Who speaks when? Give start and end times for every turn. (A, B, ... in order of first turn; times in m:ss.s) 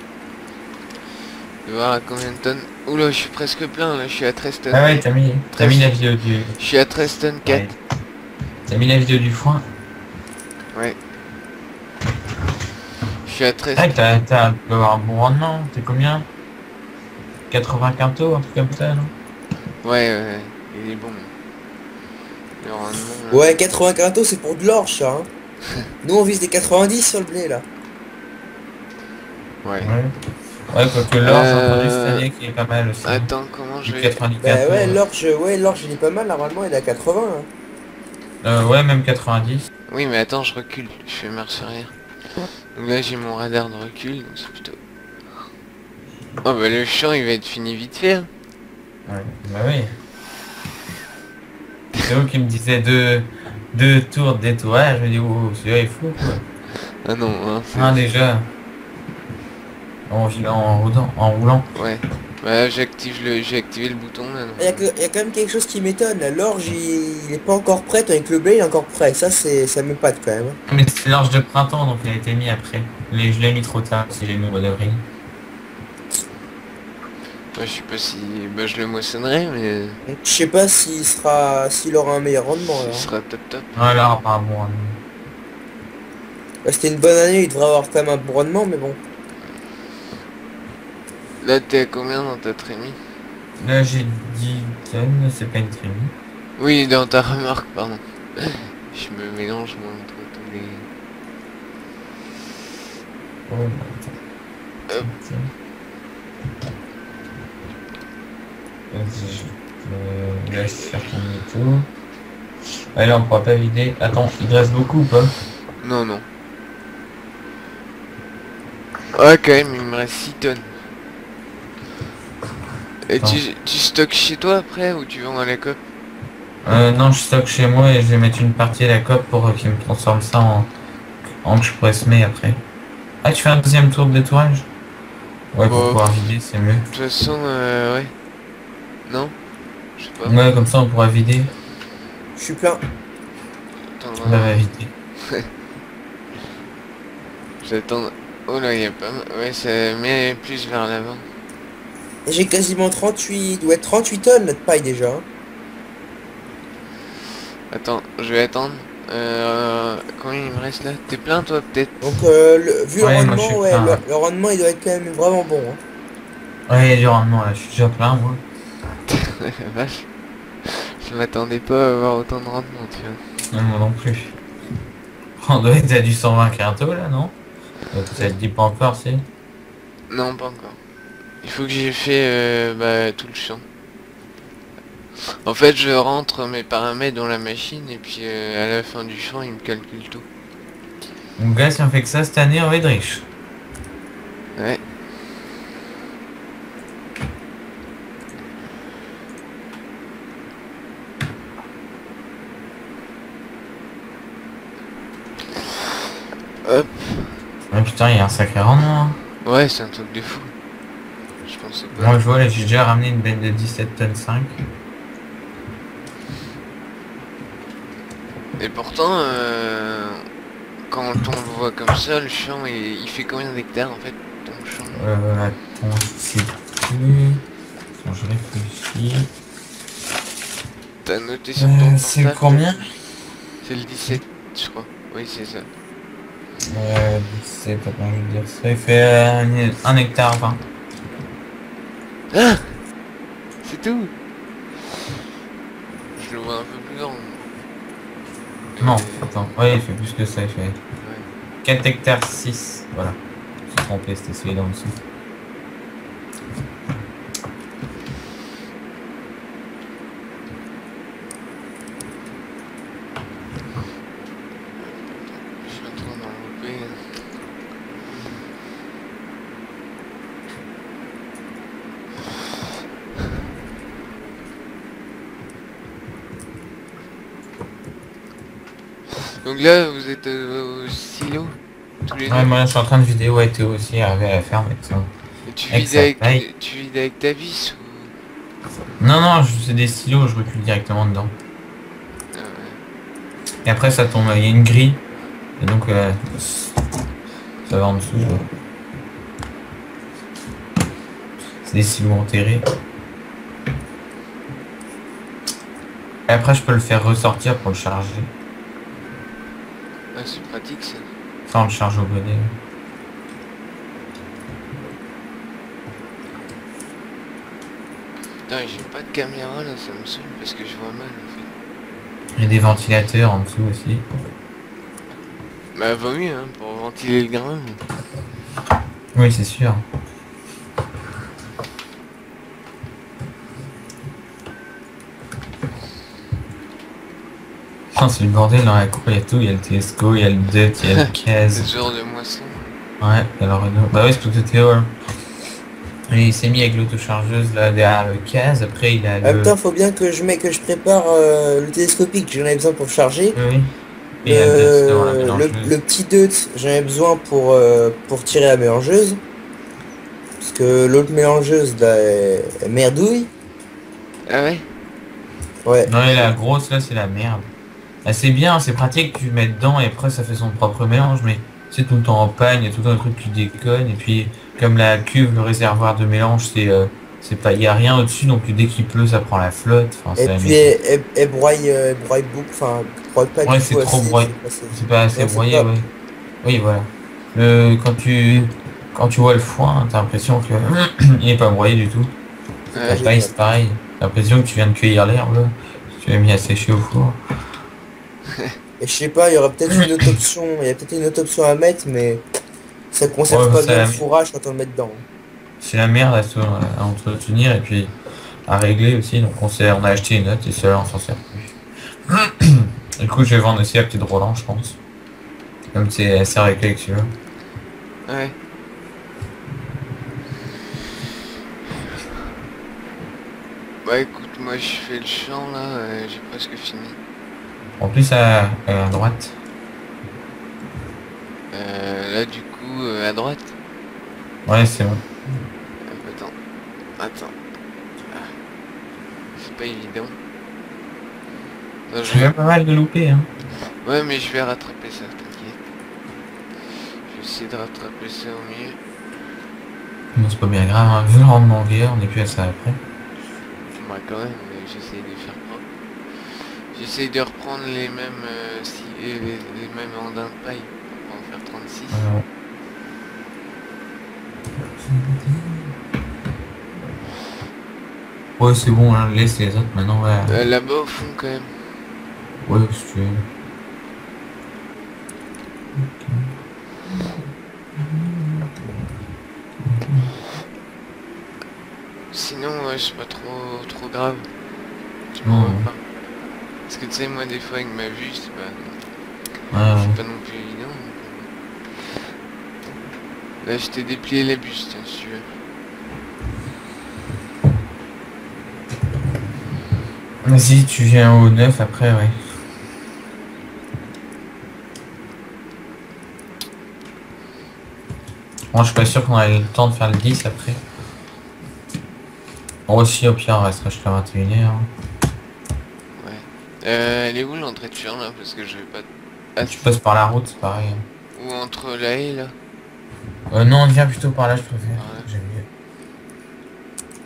0:01.6-0:06.0 A
0:04.7-0:06.6 B
0:06.6-0:07.7 A
0:07.4-0:07.8 B
0:08.7-0:09.6 B
0:13.2-0:14.0 A
0:13.8-0:16.3 B
0:17.5-0:19.1 B
0:19.8-0:21.3 A
0:22.6-0:23.6 A
0:23.3-0:25.3 C
0:26.0-0:27.6 C
0:29.6-0:29.9 A
0:29.8-0:30.1 B
0:30.7-0:33.3 B
0:31.2-0:32.2 A
0:33.0-0:34.2 A
0:33.8-0:35.0 B
0:34.4-0:37.5 C
0:38.4-0:39.7 B
0:39.9-0:41.9 A
0:42.7-0:44.8 A
0:46.4-0:48.3 A
0:49.0-0:49.9 B
0:52.0-0:56.4 B
0:57.0-0:58.0 A
0:57.7-0:58.5 B
1:00.1-1:01.7 B
1:01.7-1:04.8 A
1:04.6-1:10.6 C
1:10.7-1:15.0 B
1:17.5-1:20.0 A
1:20.0-1:23.1 C
1:22.6-1:24.0 A
1:23.7-1:25.0 B
1:26.6-1:29.0 C
1:31.4-1:33.0 A
1:33.6-1:36.1 B
1:36.6-1:40.9 A
1:43.5-1:44.2 B
1:45.0-1:45.5 B
1:48.9-1:51.9 B
1:52.9-1:55.3 B
1:55.8-1:56.2 A
1:59.1-2:00.7 A
2:03.0-2:05.8 A
2:06.6-2:10.7 B
2:11.4-2:12.6 B
2:13.2-2:14.7 B
2:15.5-2:16.9 B
2:15.6-2:16.0 A
2:16.9-2:18.1 A
2:19.1-2:19.3 A
2:20.0-2:20.4 A
2:20.2-2:21.5 B
2:22.4-2:22.8 C
2:24.0-2:24.6 A
2:24.2-2:24.9 B
2:27.6-2:31.2 A
2:32.2-2:35.2 C
2:37.7-2:42.0 A
2:42.0-2:45.8 C
2:43.0-2:44.0 B
2:46.7-2:48.4 B
2:49.1-2:50.1 A
2:50.6-2:53.2 A
2:53.5-2:54.3 B
2:55.4-2:57.4 B
2:57.9-2:59.2 B
3:00.1-3:00.8 A
3:01.4-3:03.6 A
3:05.4-3:10.2 A
3:11.4-3:13.2 B
3:14.6-3:14.8 A
3:26.6-3:27.4 A
3:27.7-3:29.2 B
3:29.4-3:30.5 A
3:31.4-3:32.2 A
3:31.9-3:34.6 B
3:38.6-3:40.2 A
3:40.9-3:45.0 A
3:45.0-3:47.4 B
3:48.0-3:49.3 B
3:51.0-3:52.9 A
3:51.6-3:52.9 B
3:53.6-3:55.7 A
3:56.6-4:00.6 B
4:02.3-4:02.8 A
4:03.6-4:04.1 A
4:06.2-4:07.4 A
4:08.8-4:09.4 A
4:08.8-4:10.8 B
4:11.0-4:11.3 A
4:11.6-4:15.0 B
4:24.8-4:27.2 A
4:39.3-4:42.5 A
4:42.3-4:45.1 B
4:45.4-4:48.1 A
4:45.7-4:46.4 B
4:49.0-4:51.3 B
4:52.3-4:52.8 A
4:53.6-4:55.0 B
4:55.6-4:56.7 B
4:57.6-4:58.5 B
5:01.6-5:02.6 B
5:06.3-5:08.3 B
5:10.1-5:11.1 A
5:11.5-5:12.5 B
5:18.5-5:21.5 A
5:22.4-5:24.0 B
5:25.7-5:27.8 A
5:29.1-5:29.8 B
5:37.9-5:41.7 B
5:41.0-5:42.7 A
5:43.0-5:44.9 B
5:46.1-5:49.5 B
5:49.2-5:53.4 C
5:53.3-5:55.7 B
5:54.2-5:59.2 C
6:00.4-6:03.3 C
6:04.3-6:04.7 A
6:05.6-6:05.9 C
6:05.8-6:07.5 B
6:08.0-6:20.7 B
6:20.2-6:25.7 C
6:23.4-6:25.9 B
6:26.4-6:32.1 B
6:32.7-6:33.0 A
6:32.8-6:33.3 C
6:32.8-6:37.2 B
6:38.3-6:38.5 A
6:38.8-6:42.2 C
6:42.9-6:45.0 C
6:43.3-6:44.0 B
6:45.6-6:47.9 B
6:48.5-6:51.5 B
6:52.0-6:54.8 B
6:55.7-6:57.1 B
6:58.0-6:58.4 A
7:03.8-7:07.0 A
7:07.8-7:09.3 B
7:11.5-7:13.5 A
7:14.4-7:15.0 B
7:15.9-7:16.3 A
7:17.0-7:17.3 A
7:18.1-7:18.4 A
7:19.3-7:20.2 A
7:21.9-7:22.3 A
7:22.0-7:23.3 B
7:23.8-7:25.6 A
7:27.1-7:28.8 A
7:30.1-7:32.8 B
7:33.7-7:35.6 A
7:36.7-7:42.0 A
7:41.9-7:42.2 B
7:44.9-7:45.7 B
7:48.4-7:50.4 B
7:50.3-7:51.5 A
7:52.4-7:53.2 B
7:55.8-7:56.3 B
7:56.9-7:57.2 B
7:57.8-7:58.6 B
7:59.6-8:00.1 B
8:02.1-8:04.3 A
8:05.1-8:05.8 A
8:05.2-8:05.7 B
8:06.7-8:08.8 A
8:09.5-8:10.0 B
8:09.7-8:11.3 A
8:13.4-8:15.3 A
8:20.2-8:22.2 B
8:28.5-8:30.6 B
8:32.7-8:34.7 B
8:36.0-8:39.7 A
8:39.4-8:40.8 B
8:41.2-8:42.3 A
8:43.3-8:45.5 B
8:44.7-8:45.1 A